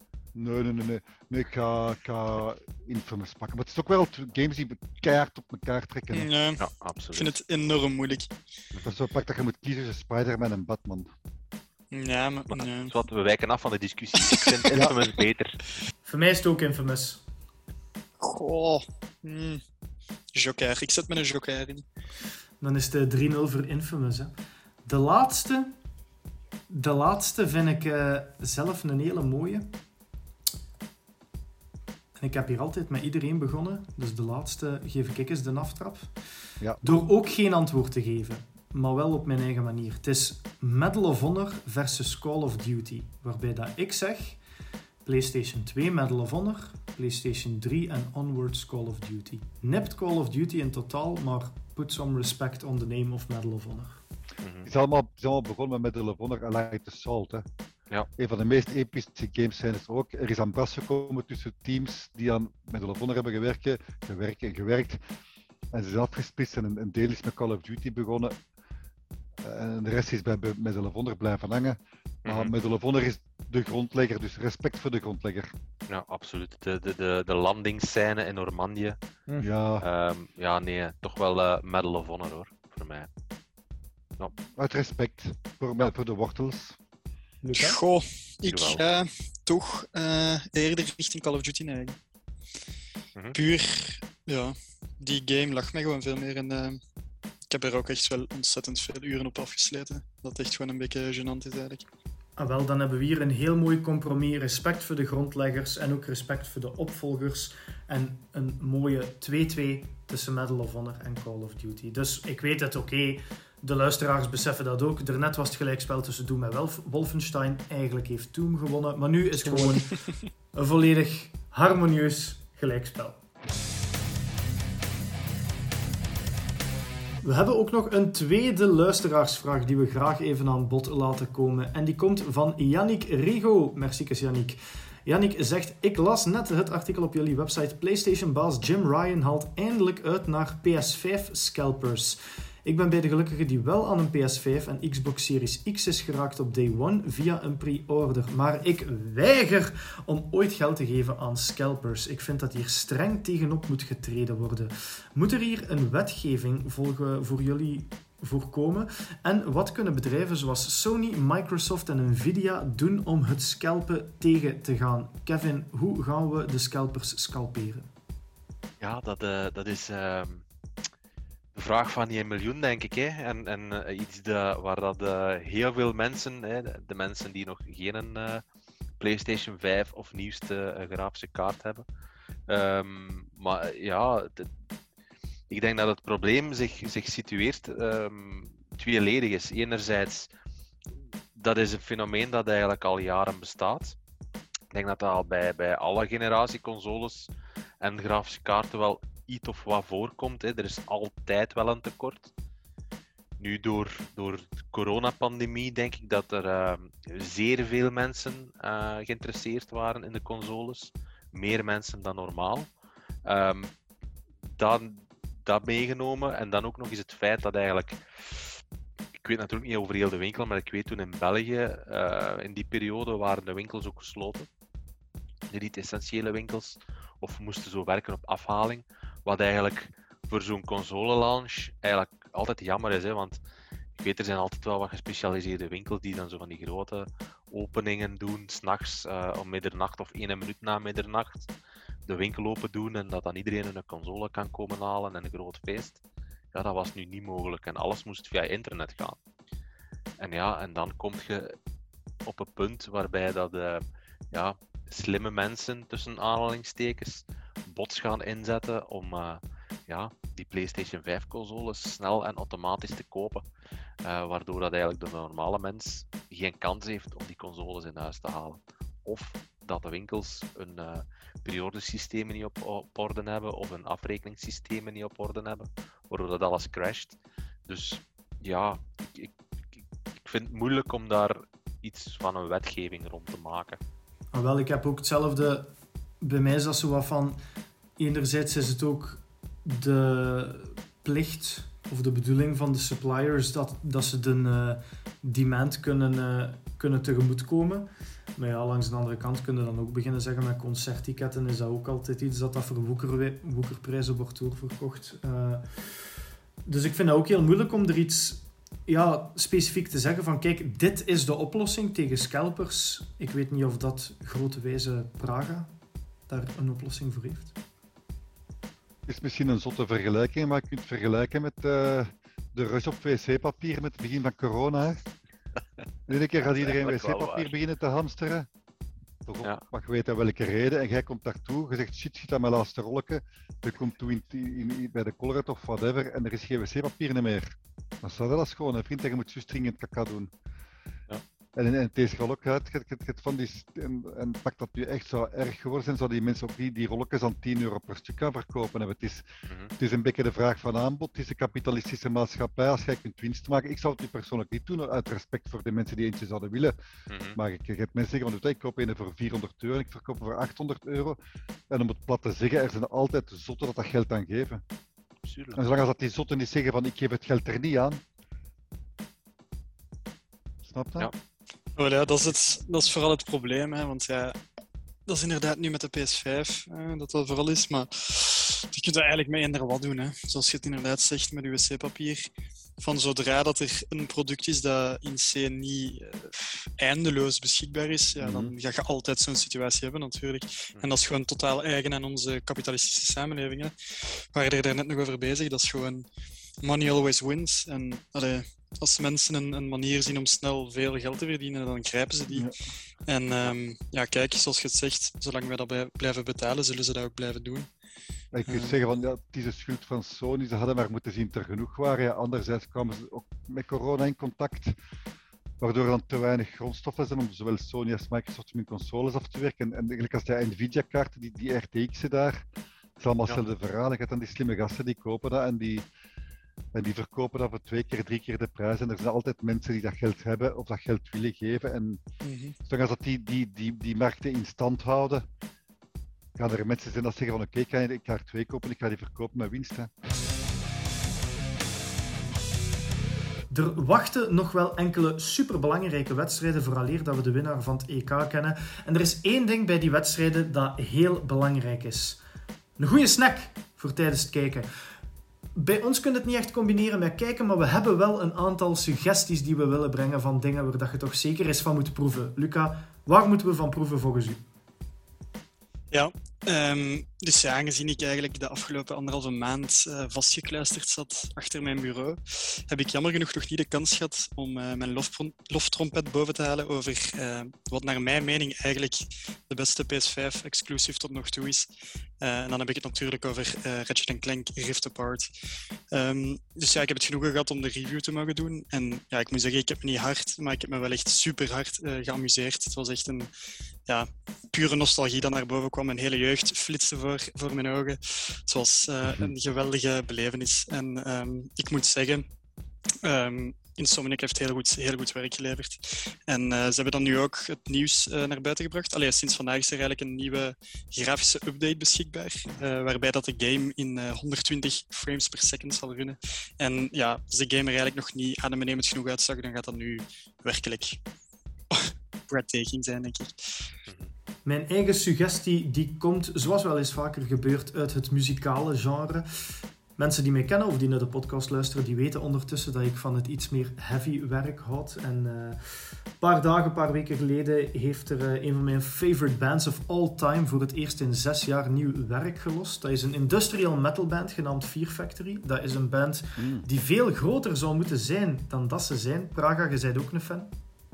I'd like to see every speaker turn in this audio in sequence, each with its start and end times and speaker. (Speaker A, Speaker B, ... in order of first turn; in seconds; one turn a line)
Speaker A: 0.3-6.3
Speaker B: 6.1-6.6
Speaker C: 6.6-7.3
Speaker B: 7.1-8.3
Speaker A: 8.8-11.1
Speaker B: 11.9-12.9
Speaker C: 12.5-15.6
Speaker A: 14.7-14.9
Speaker D: 16.0-17.2
Speaker B: 18.2-19.6
Speaker B: 20.3-21.8
Speaker D: 22.6-24.3
Speaker D: 24.8-25.7
Speaker D: 26.7-29.7
Speaker D: 32.1-36.1
Speaker A: 36.6-37.0
Speaker D: 36.8-44.4
Speaker D: 45.0-54.0
Speaker C: 54.4-54.7
Speaker A: 54.6-57.5
Speaker A: 58.2-65.0
Speaker A: 65.7-68.3
Speaker A: 69.4-75.5
Speaker C: 72.2-72.5
Speaker C: 75.9-79.0
Speaker A: 79.4-79.9
Speaker C: 79.8-83.1
Speaker A: 84.4-86.8
Speaker D: 87.4-87.8
Speaker B: 87.5-92.0
Speaker C: 88.5-88.8
Speaker B: 93.3-96.8
Speaker B: 97.5-101.8
Speaker D: 102.4-120.0
Speaker B: 119.4-120.1
Speaker D: 120.5-123.2
Speaker D: 127.2-167.9
Speaker C: 168.8-170.4
Speaker C: 171.5-178.4
Speaker C: 179.0-181.8
Speaker C: 182.5-184.5
Speaker C: 185.5-190.3
Speaker C: 191.3-194.0
Speaker C: 194.7-197.3
Speaker C: 197.8-202.3
Speaker C: 203.4-212.7
Speaker C: 213.2-213.7
Speaker C: 214.6-218.6
Speaker C: 219.2-224.5
Speaker C: 225.5-233.4
Speaker C: 233.9-241.5
Speaker C: 242.1-246.0
Speaker C: 246.5-249.2
Speaker C: 250.2-251.6
Speaker C: 252.2-263.4
Speaker C: 264.0-283.8
Speaker D: 284.3-285.7
Speaker D: 286.2-287.4
Speaker D: 288.0-305.9
Speaker D: 306.6-315.7
Speaker D: 316.3-317.5
Speaker A: 319.1-325.0
Speaker A: 326.1-328.5
Speaker C: 326.5-327.5
Speaker A: 329.2-337.5
Speaker A: 338.0-340.3
Speaker A: 341.6-356.7
Speaker C: 357.1-357.4
Speaker A: 357.3-361.2
Speaker A: 361.7-364.6
Speaker C: 365.2-365.6
Speaker A: 365.5-368.0
Speaker A: 370.6-371.1
Speaker B: 371.8-374.4
Speaker B: 375.1-396.1
Speaker A: 388.2-388.5
Speaker B: 396.6-402.5
Speaker B: 403.1-407.7
Speaker A: 408.3-414.8
Speaker B: 408.4-408.8
Speaker A: 415.6-422.4
Speaker A: 423.0-425.9
Speaker A: 426.7-432.0
Speaker B: 432.2-432.6
Speaker A: 432.6-435.2
Speaker A: 436.4-439.9
Speaker D: 443.5-452.2
Speaker D: 452.8-454.7
Speaker D: 455.6-464.4
Speaker B: 465.9-481.7
Speaker B: 482.2-485.3
Speaker B: 485.9-493.3
Speaker B: 493.9-502.3
Speaker A: 499.1-499.3
Speaker B: 503.0-521.0
Speaker B: 521.7-523.7
Speaker C: 523.9-524.1
Speaker D: 524.4-529.2
Speaker D: 530.0-550.5
Speaker A: 546.4-546.7